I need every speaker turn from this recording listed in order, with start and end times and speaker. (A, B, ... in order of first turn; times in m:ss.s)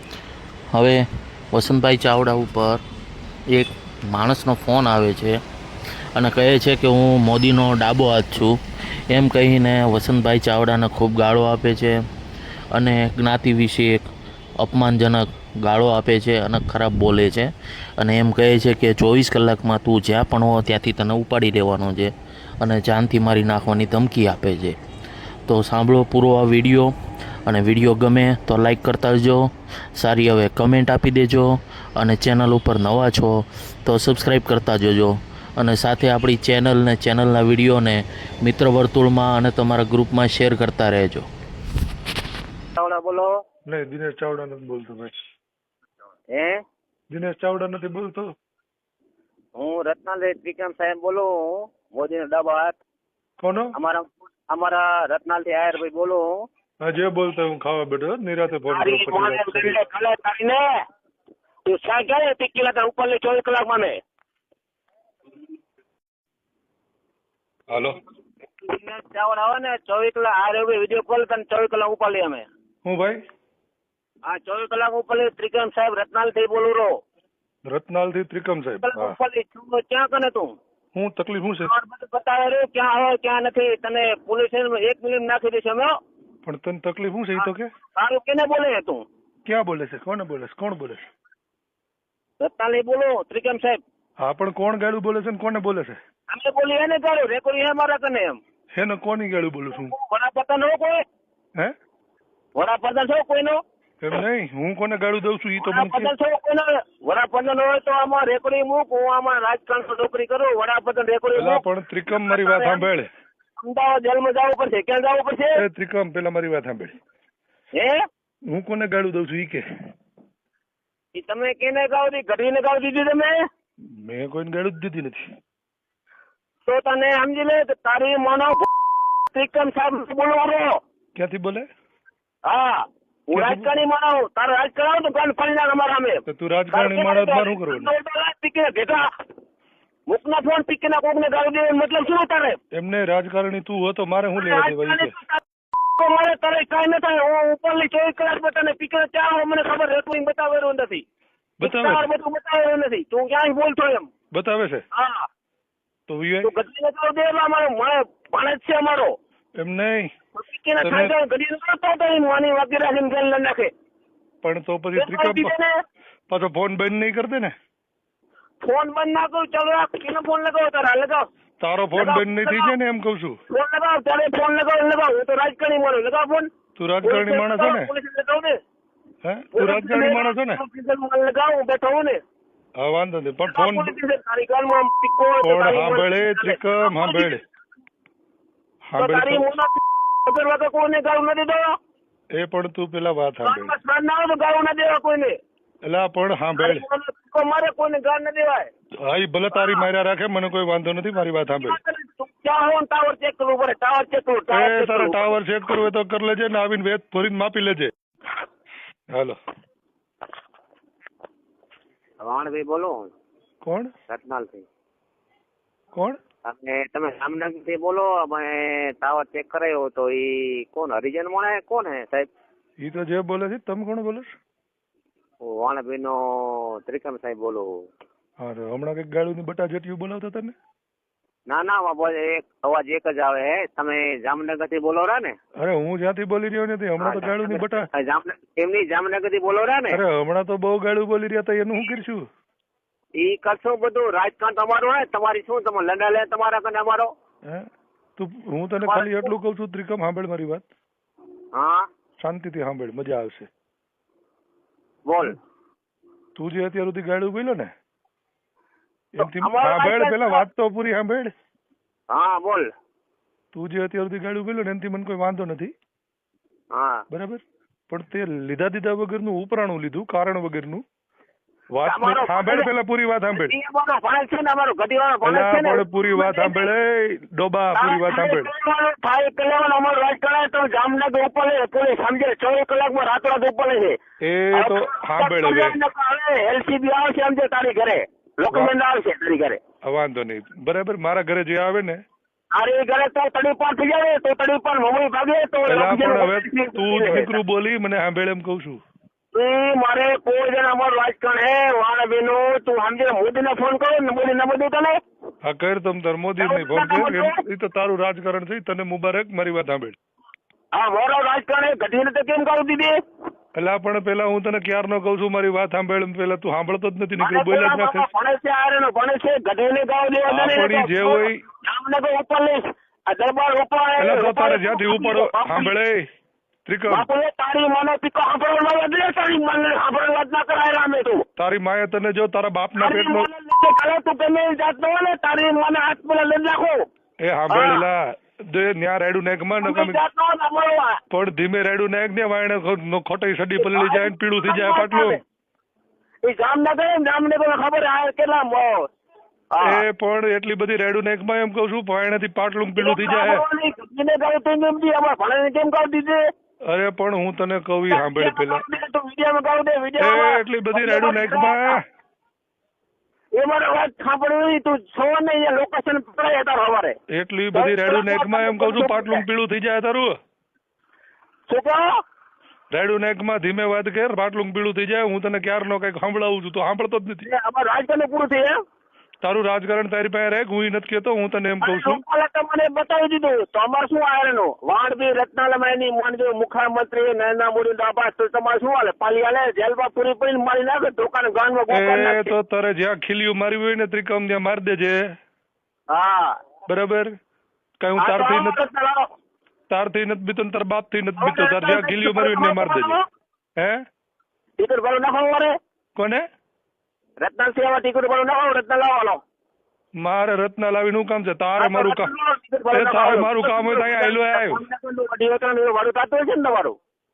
0:00.7-0:01.0 A
0:01.5-0:02.8 A
0:03.5-0:05.4 A
0:06.1-0:08.5 A
0:09.1-0:12.0 A
0:12.7-0:14.1 A
0:14.6-0:24.8 A
0:25.5-0:26.9 A
0:27.4-0:29.4 A
0:30.0-0:41.2 A
0:42.8-0:43.3 B
0:43.7-0:45.1 C
0:46.3-0:46.6 B
0:47.1-0:48.3 C
0:49.6-0:52.8 B
0:53.4-0:53.7 C
0:53.7-0:56.5 B
0:56.8-0:59.8 C
0:58.7-1:00.7 B
1:01.6-1:04.0 B
1:07.7-1:08.0 C
1:08.6-1:12.5 B
1:12.8-1:13.2 C
1:14.2-1:16.9 B
1:17.6-1:19.2 C
1:18.8-1:20.5 B
1:20.9-1:21.7 C
1:21.6-1:26.0 B
1:26.4-1:27.7 C
1:27.4-1:29.0 B
1:29.4-1:31.0 C
1:32.4-1:33.8 B
1:34.2-1:36.0 C
1:36.3-1:38.4 B
1:38.7-1:39.9 C
1:39.7-1:41.0 B
1:42.6-1:43.6 B
1:44.0-1:46.1 C
1:45.6-1:52.8 B
1:51.3-1:53.1 C
1:53.6-1:55.6 B
1:55.6-1:56.9 C
1:57.7-1:58.0 B
1:58.5-1:59.6 C
2:01.1-2:03.4 B
2:04.0-2:05.2 C
2:06.6-2:08.7 B
2:09.3-2:10.8 B
2:11.2-2:11.6 C
2:12.4-2:19.0 B
2:13.3-2:13.7 C
2:16.3-2:17.9 C
2:20.1-2:22.6 B
2:22.7-2:25.2 C
2:24.4-2:25.4 B
2:25.9-2:31.0 B
2:31.6-2:32.0 C
2:31.6-2:34.1 B
2:34.3-2:34.8 C
2:34.9-2:35.3 B
2:36.1-2:36.5 C
2:36.4-2:39.1 B
2:39.6-2:40.1 C
2:40.3-2:43.7 B
2:40.8-2:41.1 C
2:44.4-2:45.5 C
2:44.9-2:45.7 B
2:46.3-2:47.5 C
2:48.6-2:51.2 B
2:51.6-2:53.4 C
2:51.9-2:52.7 B
2:53.5-2:56.5 B
2:56.8-2:57.9 C
2:57.0-2:58.5 B
2:59.2-3:00.6 C
2:59.5-3:02.2 B
3:02.8-3:03.9 C
3:03.5-3:07.4 B
3:05.4-3:07.4 C
3:08.9-3:09.4 C
3:09.0-3:11.7 B
3:12.3-3:13.8 C
3:13.4-3:15.4 B
3:15.8-3:16.8 C
3:16.6-3:18.7 B
3:19.0-3:21.8 C
3:19.5-3:19.8 B
3:21.5-3:25.4 B
3:24.5-3:27.9 C
3:29.1-3:29.4 C
3:32.2-3:33.1 B
3:33.6-3:33.9 C
3:34.1-3:34.6 B
3:36.4-3:42.3 B
3:42.8-3:44.3 C
3:45.4-3:47.7 B
3:48.4-3:50.5 C
3:51.5-3:55.4 B
3:55.6-3:57.9 C
3:57.0-4:00.0 B
3:59.9-4:02.2 C
4:03.2-4:07.1 B
4:08.2-4:10.6 C
4:08.8-4:09.3 B
4:11.5-4:11.8 B
4:12.2-4:13.5 C
4:15.1-4:15.4 B
4:16.4-4:17.7 C
4:19.2-4:21.3 C
4:19.2-4:20.4 B
4:22.1-4:22.7 B
4:23.5-4:25.7 C
4:26.7-4:27.0 B
4:27.1-4:30.8 C
4:31.7-4:33.5 C
4:31.8-4:32.7 B
4:33.3-4:36.7 B
4:35.2-4:38.5 C
4:37.7-4:44.0 B
4:44.2-4:45.8 C
4:44.5-4:49.6 B
4:49.8-4:52.0 C
4:52.5-4:57.3 B
4:55.7-4:58.8 C
4:59.3-5:05.0 B
5:05.4-5:10.0 C
5:06.4-5:07.4 B
5:10.7-5:13.0 B
5:13.5-5:18.1 C
5:17.2-5:25.7 B
5:20.3-5:21.4 C
5:24.0-5:26.0 C
5:26.6-5:27.1 C
5:26.9-5:31.2 B
5:31.4-5:33.3 C
5:32.8-5:36.8 B
5:37.2-5:40.0 C
5:37.5-5:37.8 B
5:39.6-5:41.0 B
5:41.1-5:45.2 C
5:43.6-5:45.2 B
5:46.2-5:48.8 B
5:49.5-5:49.8 B
5:49.6-5:53.4 C
5:52.8-5:56.2 B
5:56.7-5:58.6 C
5:57.9-6:01.8 B
6:00.0-6:01.8 C
6:03.4-6:07.0 B
6:07.1-6:10.1 C
6:07.5-6:09.2 B
6:11.5-6:11.8 B
6:12.7-6:17.3 C
6:17.2-6:18.5 B
6:19.2-6:22.0 C
6:21.6-6:32.3 B
6:31.7-6:35.0 C
6:35.9-6:36.4 B
6:36.7-6:37.1 C
6:37.8-6:38.6 C
6:38.0-6:39.0 B
6:39.7-6:43.0 C
6:41.2-6:43.0 B
6:44.6-6:45.5 B
6:46.0-6:46.2 C
6:47.2-6:49.2 B
6:50.0-6:52.1 C
6:51.6-6:56.8 B
6:52.7-6:54.6 C